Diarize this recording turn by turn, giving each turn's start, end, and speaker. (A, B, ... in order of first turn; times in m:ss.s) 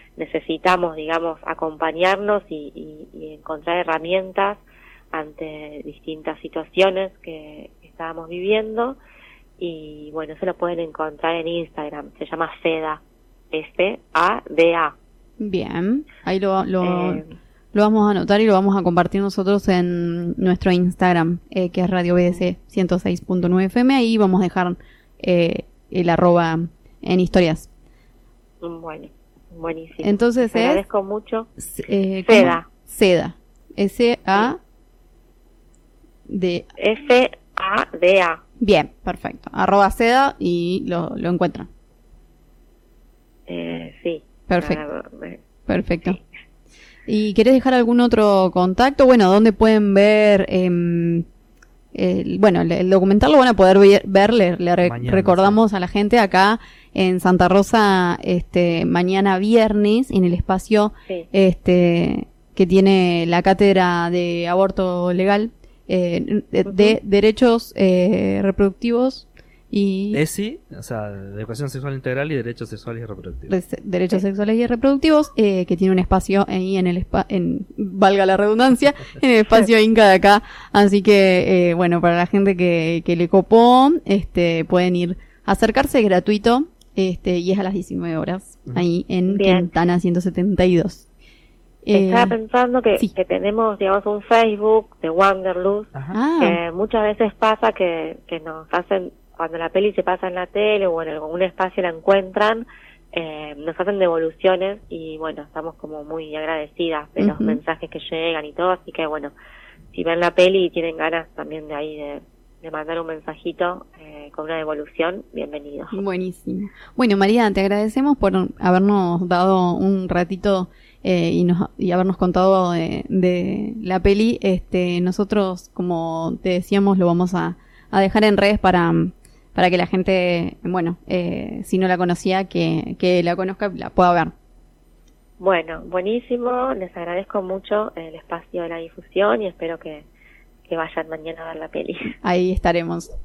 0:00.2-0:09.0 A
0:09.6-0:13.0 A
0:13.5-0:15.0 A
0:15.4-0:27.7 B
0:16.8-0:17.3 A
0:28.6-0:31.5 A
0:30.0-0:30.8 B
0:31.6-0:34.6 B
0:32.2-0:32.7 A
0:36.3-0:36.7 B
0:36.8-0:38.4 A
0:38.6-0:41.7 B
0:43.5-0:45.4 A
0:44.5-0:44.8 B
0:45.7-0:46.2 B
0:47.1-0:51.2 B
0:51.9-1:10.2 B
0:54.8-0:55.6 C
1:06.6-1:07.0 A
1:10.1-1:13.6 C
1:13.5-1:31.1 B
1:29.3-1:29.7 A
1:31.8-1:32.4 B
1:31.9-1:49.3 A
1:35.9-1:36.2 C
1:36.1-1:36.6 B
1:47.2-1:47.6 B
1:49.9-1:56.0 A
1:55.9-2:14.3 B
2:15.4-2:20.1 A
2:20.7-2:22.1 A
2:22.2-2:23.1 B